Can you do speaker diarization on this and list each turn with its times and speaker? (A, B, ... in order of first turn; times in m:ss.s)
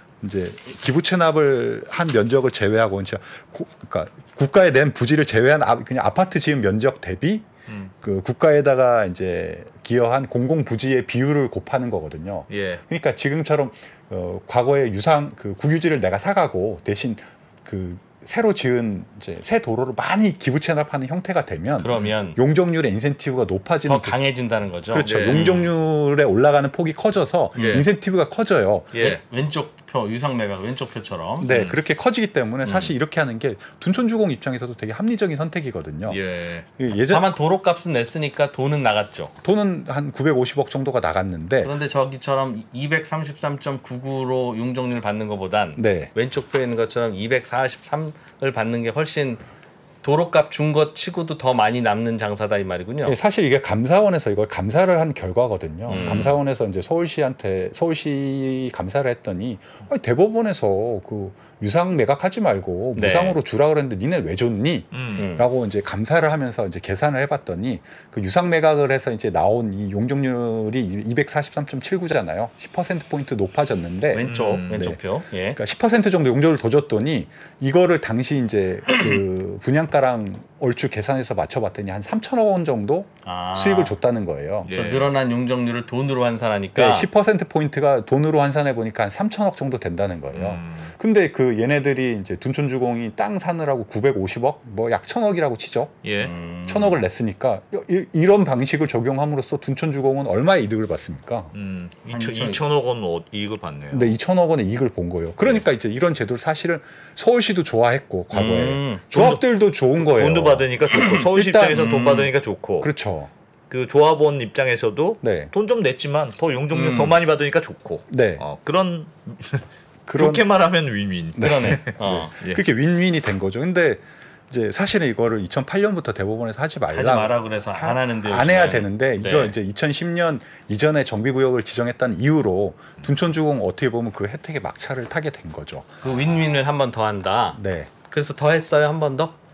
0:00.2-0:07.5 A
0:08.0-0:24.2 A
0:12.5-0:12.8 B
0:21.8-0:22.4 C
0:23.8-0:25.7 C
0:24.9-0:28.9 A
0:25.0-0:25.7 B
0:27.5-0:27.8 C
0:28.9-0:29.2 B
0:29.0-0:31.5 C
0:31.4-0:36.2 A
0:31.5-0:31.8 B
0:32.6-0:32.9 C
0:36.1-0:36.6 B
0:36.8-0:37.3 A
0:37.1-0:39.3 C
0:39.4-0:41.7 A
0:41.6-0:49.4 C
0:45.8-0:46.1 A
0:50.0-0:53.2 C
0:53.0-1:15.0 A
0:55.9-0:56.4 C
1:03.0-1:03.4 C
1:04.9-1:05.3 B
1:05.2-1:05.5 C
1:14.1-1:15.6 C
1:14.2-1:14.9 B
1:15.5-1:24.8 A
1:23.2-1:24.0 C
1:24.7-1:25.1 B
1:24.7-1:27.1 C
1:26.8-1:35.9 A
1:30.3-1:30.9 B
1:36.0-1:36.3 B
1:36.2-1:37.0 C
1:36.6-1:41.5 A
1:41.5-1:44.2 B
1:42.1-1:42.6 C
1:43.9-1:52.2 A
1:48.3-1:49.0 C
1:49.1-1:49.4 B
1:50.0-1:52.9 B
1:51.8-1:52.2 C
1:52.8-1:53.3 A
1:53.7-2:02.6 B
1:55.2-1:55.5 A
1:56.7-1:57.2 C
1:58.1-1:58.4 A
2:00.1-2:00.5 A
2:01.4-2:16.0 A
2:01.4-2:02.3 C
2:06.9-2:09.6 C
2:16.0-2:19.4 C
2:17.6-2:17.9 A